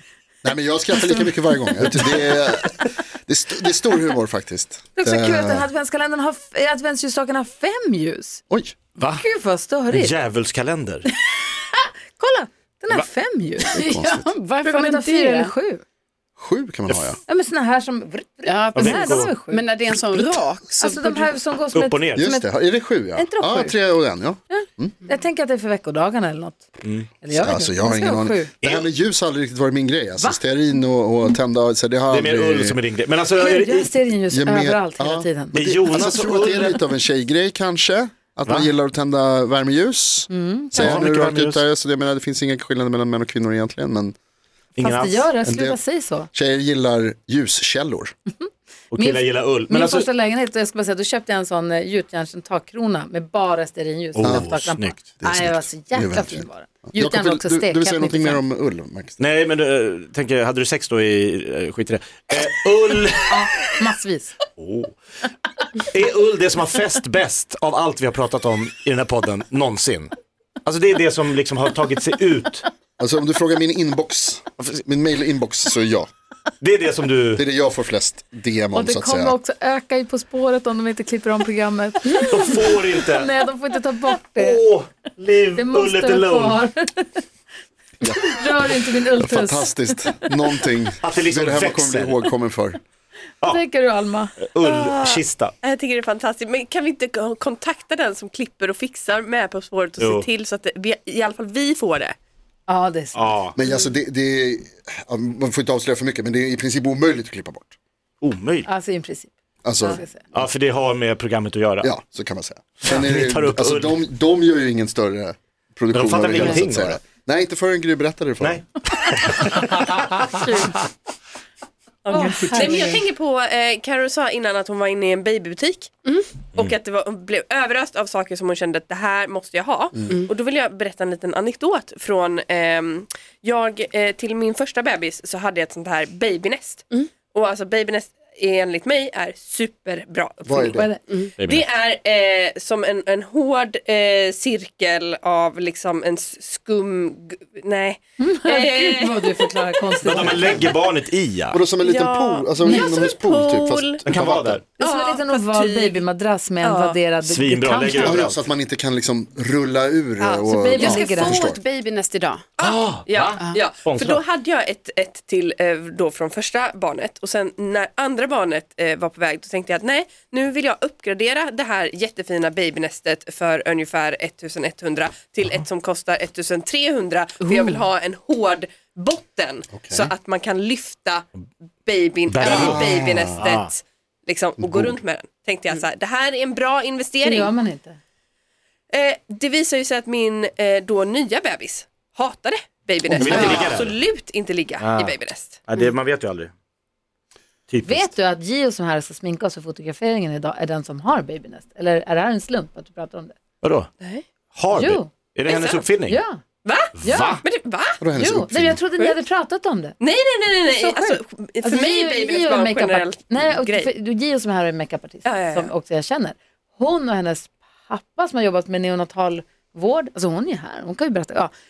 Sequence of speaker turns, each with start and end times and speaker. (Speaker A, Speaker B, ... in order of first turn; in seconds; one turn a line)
Speaker A: 0.4-5.7
Speaker B: 0.9-1.9
Speaker B: 5.0-8.4
Speaker A: 8.5-8.8
Speaker C: 9.0-9.3
Speaker B: 9.2-10.1
Speaker C: 9.9-11.1
Speaker B: 12.2-13.7
Speaker D: 13.7-15.5
Speaker A: 13.7-14.3
Speaker B: 14.7-15.8
Speaker A: 16.4-17.2
Speaker C: 16.9-17.1
Speaker B: 17.3-20.2
Speaker D: 18.4-21.3
Speaker C: 18.8-19.4
Speaker B: 20.8-22.5
Speaker C: 21.7-22.3
Speaker A: 22.2-24.9
Speaker B: 23.1-23.8
Speaker B: 24.5-28.5
Speaker C: 26.8-27.1
Speaker A: 27.3-32.8
Speaker C: 28.6-28.9
Speaker C: 32.1-33.9
Speaker B: 33.4-35.9
Speaker A: 34.3-44.1
Speaker C: 35.5-36.8
Speaker C: 38.5-38.7
Speaker B: 40.3-41.1
Speaker C: 40.7-41.6
Speaker C: 44.8-45.3
Speaker B: 44.8-46.3
Speaker A: 45.5-45.8
Speaker A: 46.3-48.1
Speaker B: 48.4-58.4
Speaker C: 48.9-50.1
Speaker C: 54.1-55.1
Speaker A: 54.2-59.2
Speaker C: 59.2-63.7
Speaker B: 63.3-64.3
Speaker C: 64.6-64.9
Speaker C: 65.9-70.1
Speaker C: 70.6-72.7
Speaker A: 73.0-76.1
Speaker C: 76.6-77.4
Speaker A: 77.4-79.4
Speaker B: 78.7-84.6
Speaker C: 82.3-83.4
Speaker C: 84.3-86.6
Speaker B: 85.6-87.2
Speaker A: 88.0-88.5
Speaker B: 88.0-90.3
Speaker A: 89.2-92.8
Speaker C: 91.0-92.3
Speaker B: 93.4-94.3
Speaker C: 94.4-95.5
Speaker E: 94.6-102.1
Speaker C: 100.0-100.3
Speaker B: 102.7-103.3
Speaker C: 103.1-103.6
Speaker A: 103.6-107.7
Speaker C: 108.2-108.7
Speaker B: 108.7-110.2
Speaker A: 109.6-110.4
Speaker C: 110.3-111.9
Speaker A: 111.8-118.6
Speaker C: 112.8-114.0
Speaker C: 115.9-117.0
Speaker C: 118.4-120.3
Speaker E: 122.0-125.9
Speaker B: 122.1-123.0
Speaker E: 126.5-140.9
Speaker A: 140.4-140.9
Speaker B: 140.7-141.0
Speaker C: 141.4-141.7
Speaker E: 141.4-150.7
Speaker B: 148.2-150.7
Speaker C: 150.0-151.6
Speaker A: 151.5-154.6
Speaker E: 151.8-154.0
Speaker C: 154.1-154.7
Speaker E: 154.8-156.0
Speaker B: 154.8-158.2
Speaker E: 156.6-157.0
Speaker C: 157.2-158.4
Speaker A: 158.0-161.6
Speaker D: 160.2-162.5
Speaker B: 160.5-161.4
Speaker E: 162.6-181.3
Speaker C: 162.6-164.2
Speaker D: 177.5-177.8
Speaker A: 179.7-180.1
Speaker E: 181.9-187.6
Speaker C: 182.3-183.7
Speaker A: 182.4-183.4
Speaker A: 184.6-184.9
Speaker B: 187.2-188.0
Speaker E: 188.9-195.7
Speaker C: 193.1-194.0
Speaker A: 193.2-193.7
Speaker C: 194.8-196.5
Speaker C: 197.7-198.2
Speaker B: 197.8-203.4
Speaker C: 203.6-203.9
Speaker C: 204.6-206.2
Speaker B: 204.7-205.1
Speaker E: 205.5-205.9
Speaker B: 206.1-206.4
Speaker E: 206.7-208.0
Speaker C: 207.0-207.4
Speaker B: 207.0-207.4
Speaker A: 208.0-208.8
Speaker B: 208.2-210.0
Speaker E: 210.0-213.9
Speaker B: 210.7-221.5
Speaker E: 215.2-215.7